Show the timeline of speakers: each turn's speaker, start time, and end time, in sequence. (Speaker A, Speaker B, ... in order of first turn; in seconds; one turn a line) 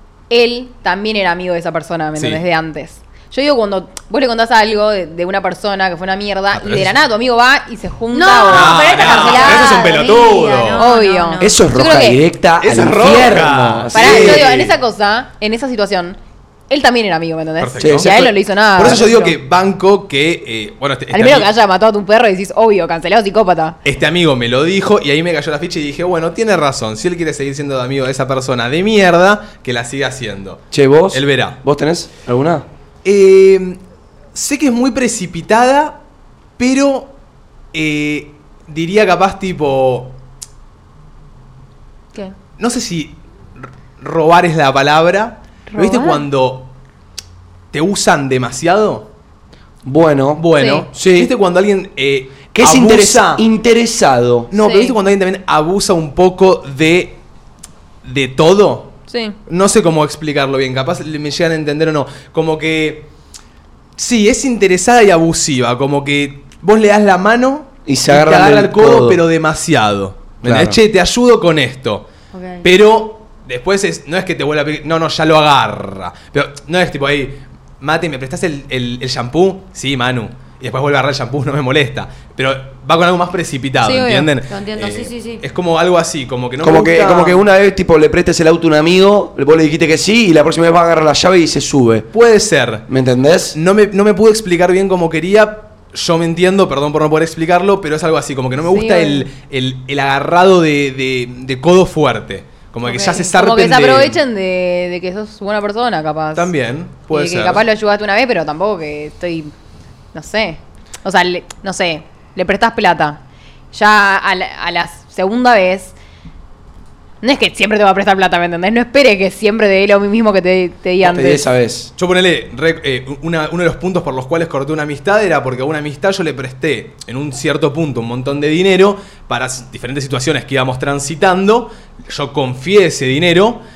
Speaker A: 0.3-9.8
Speaker B: 2.2-2.4
Speaker B: 6.5-6.9
Speaker C: 8.1-11.6
Speaker B: 8.5-10.8
Speaker A: 10.8-12.2
Speaker D: 11.4-14.6
Speaker B: 12.6-14.7
Speaker A: 13.9-16.2
Speaker A: 16.7-19.4
Speaker B: 17.6-18.1
Speaker D: 17.8-19.0
Speaker B: 18.8-21.5
Speaker A: 21.1-23.8
Speaker B: 23.8-31.6
Speaker D: 30.7-32.6
Speaker B: 33.0-33.8
Speaker B: 34.3-36.0
Speaker B: 36.6-37.1
Speaker B: 37.7-40.2
Speaker B: 42.6-46.7
Speaker A: 45.7-46.2
Speaker B: 47.7-49.1
Speaker D: 49.8-51.3
Speaker B: 50.4-53.4
Speaker A: 50.6-50.8
Speaker D: 52.5-54.5
Speaker B: 54.5-57.2
Speaker A: 54.6-55.0
Speaker B: 58.0-63.1
Speaker A: 59.1-59.4
Speaker B: 64.0-72.0
Speaker D: 67.8-69.2
Speaker D: 70.4-70.8
Speaker C: 72.3-72.6
Speaker B: 72.6-87.4
Speaker A: 83.8-84.3
Speaker C: 84.5-85.4
Speaker D: 86.6-92.1
Speaker B: 92.1-92.8
Speaker D: 92.9-93.6
Speaker B: 93.5-104.2
Speaker A: 98.6-99.3
Speaker A: 102.8-106.5
Speaker B: 106.3-107.6
Speaker A: 107.1-109.5
Speaker A: 110.1-113.2
Speaker A: 113.7-115.9
Speaker A: 117.2-121.4
Speaker D: 121.0-121.9
Speaker B: 122.0-133.6